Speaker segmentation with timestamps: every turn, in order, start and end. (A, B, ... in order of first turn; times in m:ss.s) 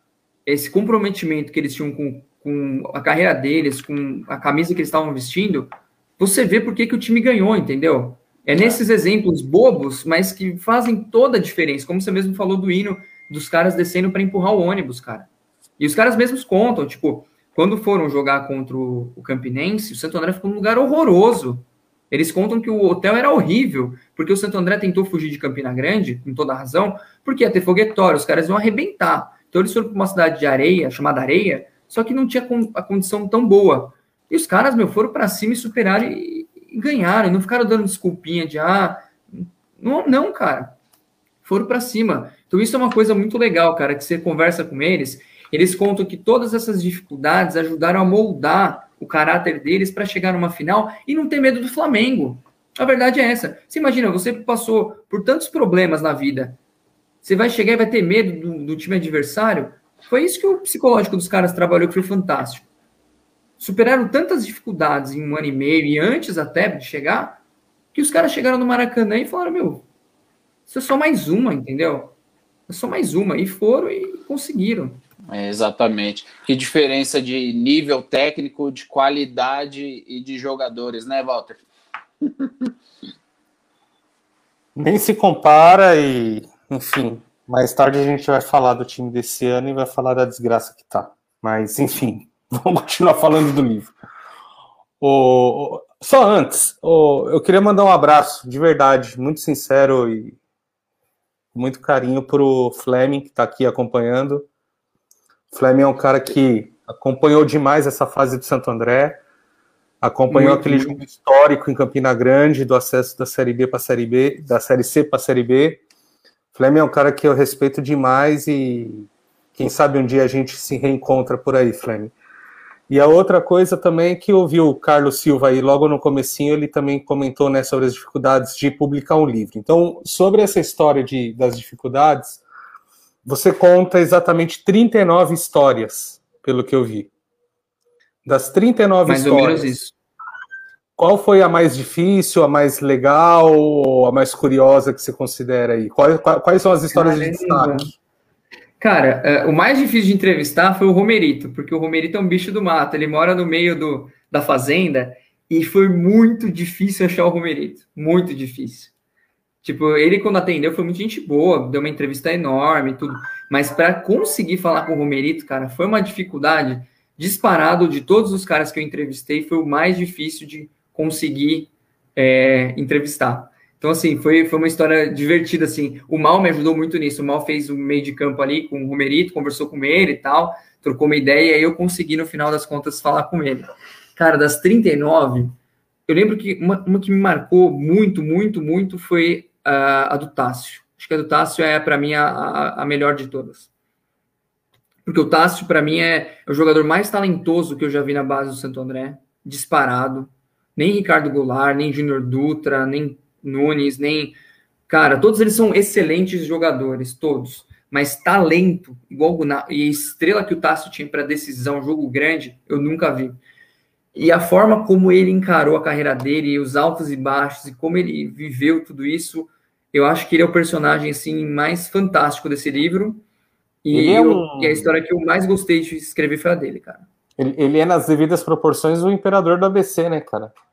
0:00.4-0:15.3 A
0:08.5-0:08.8 B
0:15.8-0:40.7 A
0:41.4-0:56.6 A
0:57.2-1:02.7 A
1:03.6-1:07.4 A
1:07.9-1:09.8 A
1:10.7-1:12.1 A
1:12.7-1:15.0 A
1:15.3-1:21.6 B
1:22.2-1:22.7 B
1:24.7-1:33.9 C
1:35.0-1:40.4 C
1:41.5-1:44.5 C
1:45.5-1:49.2 C
1:50.0-1:55.8 C
1:50.3-1:51.0 A
1:56.5-2:02.1 C
2:02.9-2:12.4 C
2:13.2-2:17.1 C
2:18.2-2:19.7 C
2:19.0-2:19.9 A
2:21.0-2:27.9 C
2:26.9-2:27.9 A
2:28.8-2:38.9 A
2:39.6-3:05.5 A
3:06.1-3:13.7 A
3:15.0-3:24.3 A
3:24.9-3:33.4 A
3:34.1-3:43.2 A
3:43.8-3:47.0 A
3:43.9-3:45.0 C
3:47.4-3:50.6 C